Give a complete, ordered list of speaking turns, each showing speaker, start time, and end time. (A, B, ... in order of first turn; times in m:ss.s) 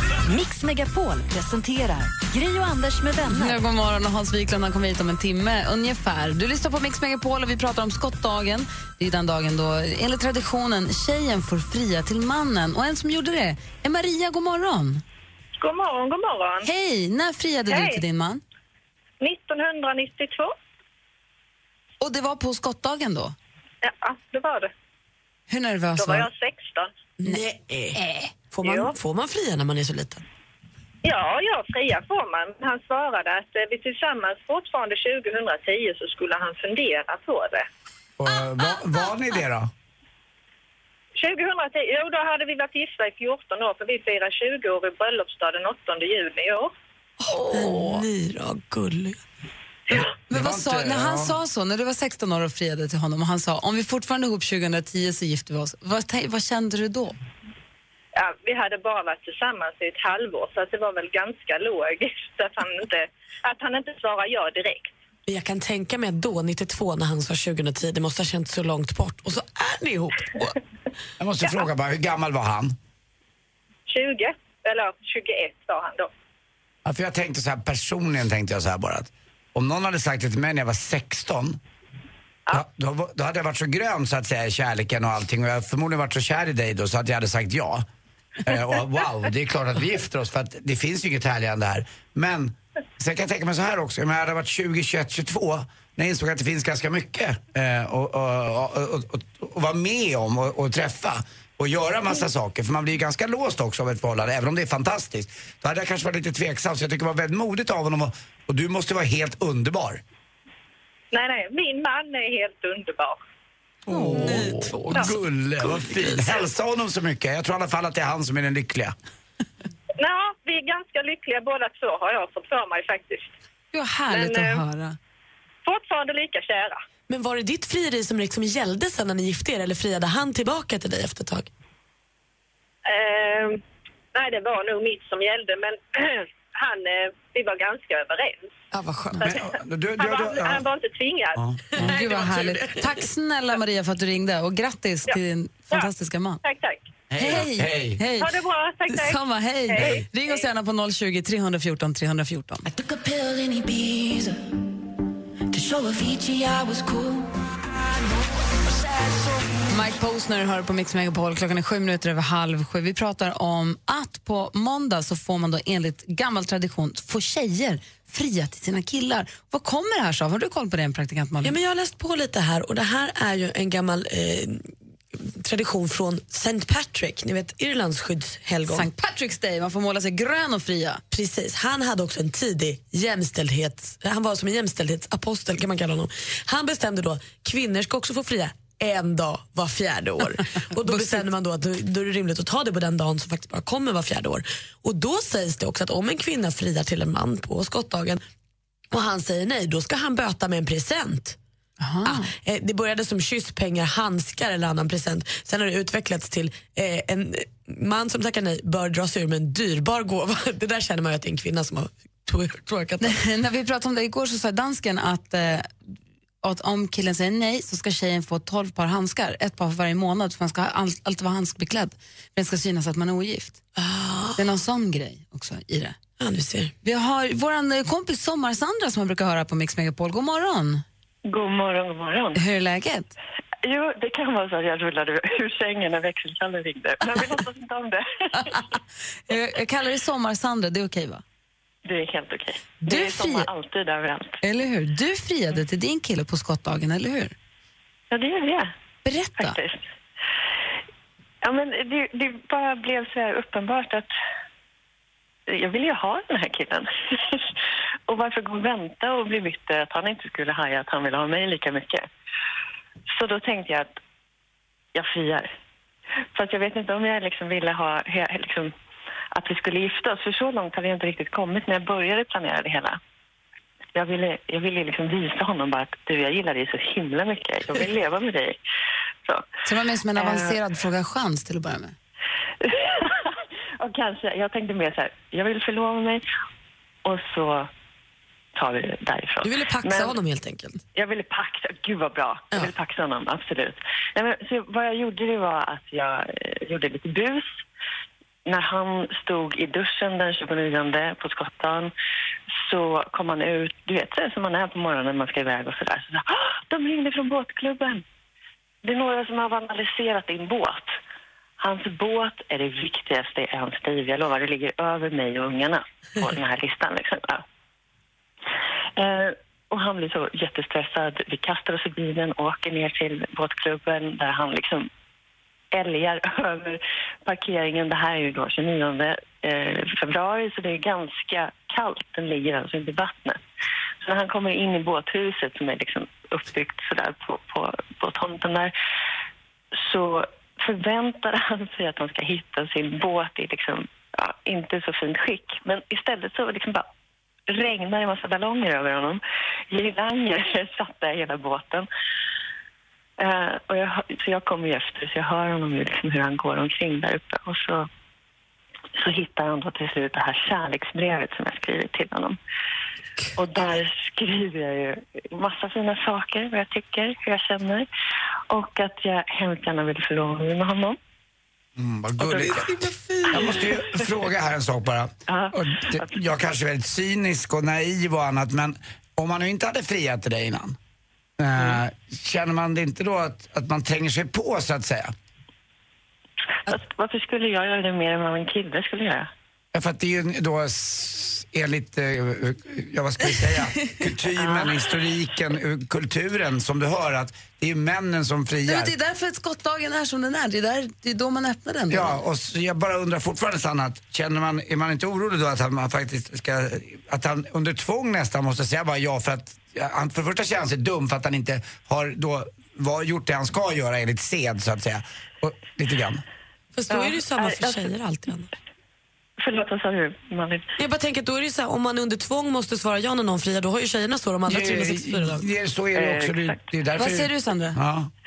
0:00.2-0:03.6 A
0:03.3-0:15.0 B
0:15.6-0:16.7 C
0:16.6-0:18.4 B
0:17.7-0:18.0 C
0:19.2-0:20.5 C
0:22.0-0:23.4 B
0:23.8-0:24.7 C
0:25.5-0:26.3 B
0:26.0-0:26.9 C
0:27.2-0:28.0 D
0:28.0-0:28.3 B
0:28.5-0:30.2 D
0:28.6-0:29.0 C
0:31.0-0:37.7 C
0:38.2-0:39.7 E
0:41.2-0:46.7 C
0:47.3-0:48.0 B
0:47.5-0:49.2 D
0:49.9-0:51.4 E
0:49.9-0:57.2 B
0:58.2-1:04.9 C
1:05.3-1:10.6 D
1:11.2-1:12.8 E
1:13.9-1:16.1 C
1:16.8-1:21.6 E
1:22.5-1:27.9 E
1:28.4-1:50.0 E
1:51.1-1:53.2 C
1:53.9-1:59.0 E
1:53.9-1:55.1 D
1:54.2-1:54.5 B
1:55.8-1:56.2 D
2:00.0-2:03.3 C
2:03.7-2:05.0 B
2:04.1-2:04.6 C
2:05.6-2:06.8 C
2:07.1-2:11.5 D
2:12.9-2:13.6 C
2:14.1-2:18.5 C
2:18.7-2:19.3 D
2:19.2-2:21.4 C
2:19.2-2:20.6 E
2:21.4-2:21.9 E
2:21.8-2:26.4 B
2:21.8-2:23.0 D
2:26.4-2:26.9 C
2:27.1-2:28.0 E
2:27.2-2:28.4 B
2:28.2-2:30.4 C
2:28.9-2:32.7 B
2:29.8-2:30.0 E
2:32.7-2:34.4 A
2:35.5-2:37.3 A
2:39.0-2:39.5 A
2:39.7-2:51.6 B
2:51.4-2:58.9 D
2:58.7-3:01.0 B
3:01.1-3:18.2 D
3:10.8-3:11.2 B
3:18.9-3:21.4 D
3:21.8-3:22.3 B
3:22.0-3:33.2 D
3:33.0-3:35.7 B
3:36.4-3:43.6 B
3:43.8-3:44.4 D
3:44.4-3:46.0 B
3:46.2-3:46.7 D
3:46.8-3:50.8 B
3:51.3-3:52.4 F
3:52.4-3:53.1 B
3:53.6-3:58.6 F
3:58.3-3:58.8 B
3:59.3-4:01.2 B
4:01.8-4:04.4 F
4:02.8-4:03.5 B
4:04.4-4:07.4 B
4:08.1-4:08.7 F
4:09.0-4:09.6 B
4:09.4-4:09.8 F
4:11.4-4:14.1 F
4:15.5-4:17.5 F
4:18.1-4:22.1 F
4:23.1-4:24.0 F
4:24.9-4:25.5 F
4:26.4-4:28.7 F
4:29.3-4:33.0 F
4:34.0-4:38.6 F
4:39.6-4:42.0 B
4:40.2-4:40.6 F
4:42.6-4:46.2 F
4:47.0-4:47.7 F
4:48.6-4:50.2 F
4:49.4-4:50.8 D
4:51.0-4:57.6 F
4:58.5-5:01.9 F
5:02.6-5:08.0 F
5:08.8-5:11.0 F
5:11.6-5:17.4 F
5:19.0-5:24.9 F
5:25.7-5:33.4 F
5:34.0-5:38.7 F
5:39.7-5:46.9 F
5:47.5-5:51.9 F
5:53.2-5:57.9 F
5:59.0-6:02.4 F
6:03.4-6:07.9 F
6:08.5-6:11.0 F
6:11.8-6:12.7 E
6:12.2-6:12.5 F
6:12.4-6:13.6 D
6:13.3-6:20.8 E
6:15.3-6:16.1 F
6:21.4-6:25.1 E
6:26.7-6:29.3 F
6:29.7-6:38.9 E
6:38.7-6:42.2 B
6:41.9-6:56.2 E
6:56.7-6:58.5 D
6:56.9-6:57.9 F
6:59.4-7:00.7 F
7:00.8-7:05.5 D
7:04.5-7:08.1 E
7:05.9-7:06.6 F
7:07.0-7:07.8 B